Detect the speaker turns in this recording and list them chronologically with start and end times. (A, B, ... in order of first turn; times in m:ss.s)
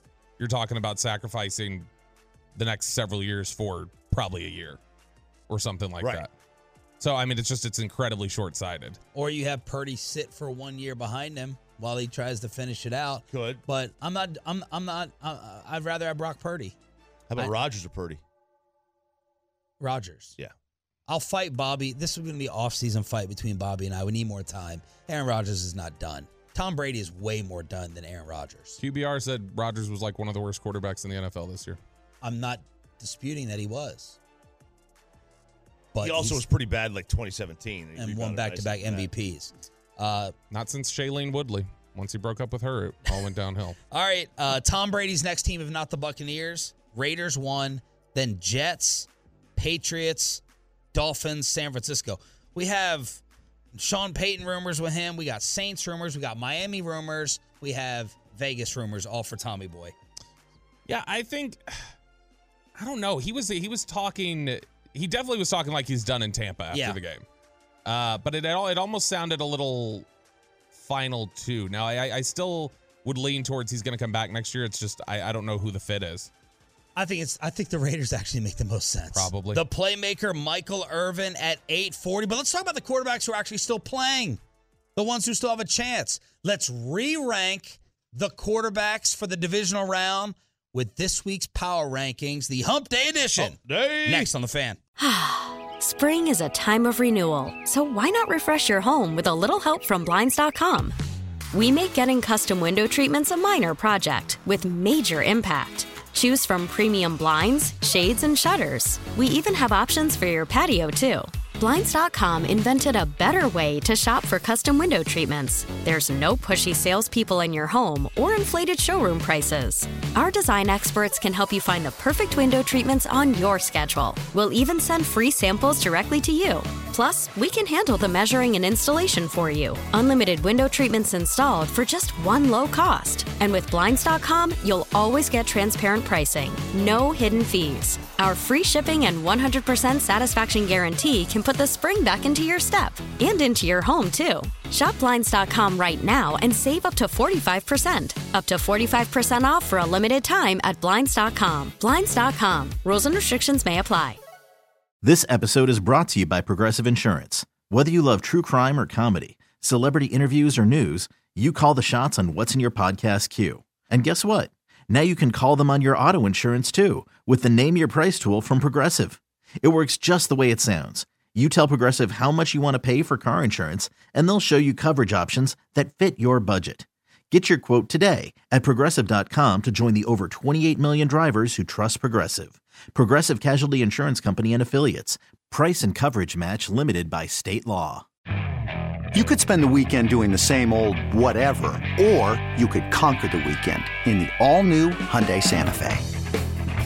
0:00.4-0:01.9 A
0:02.6-0:04.8 A
0:05.5-0:06.3 A
0:07.0-0:09.0 A
0:09.1-0:16.8 B
0:13.3-0:13.6 C
0:17.3-0:18.2 C
0:19.8-0:20.4 B
0:21.1-0:28.8 B
0:28.8-0:31.8 A
0:32.2-0:34.2 B
0:35.9-0:36.4 B
0:36.0-0:39.1 C
0:38.0-0:40.3 B
0:40.5-0:43.8 A
0:43.9-0:50.4 B
0:50.9-0:53.2 B
0:53.7-1:00.0 B
1:00.9-1:01.8 A
1:02.8-1:07.2 A
1:06.7-1:07.0 B
1:07.8-1:10.1 A
1:10.8-1:16.3 A
1:17.0-1:24.4 B
1:19.1-1:19.6 A
1:25.0-1:34.8 B
1:33.4-1:34.3 C
1:35.0-1:41.0 D
1:41.5-2:34.2 D
2:35.0-3:08.0 E
3:09.1-3:16.1 F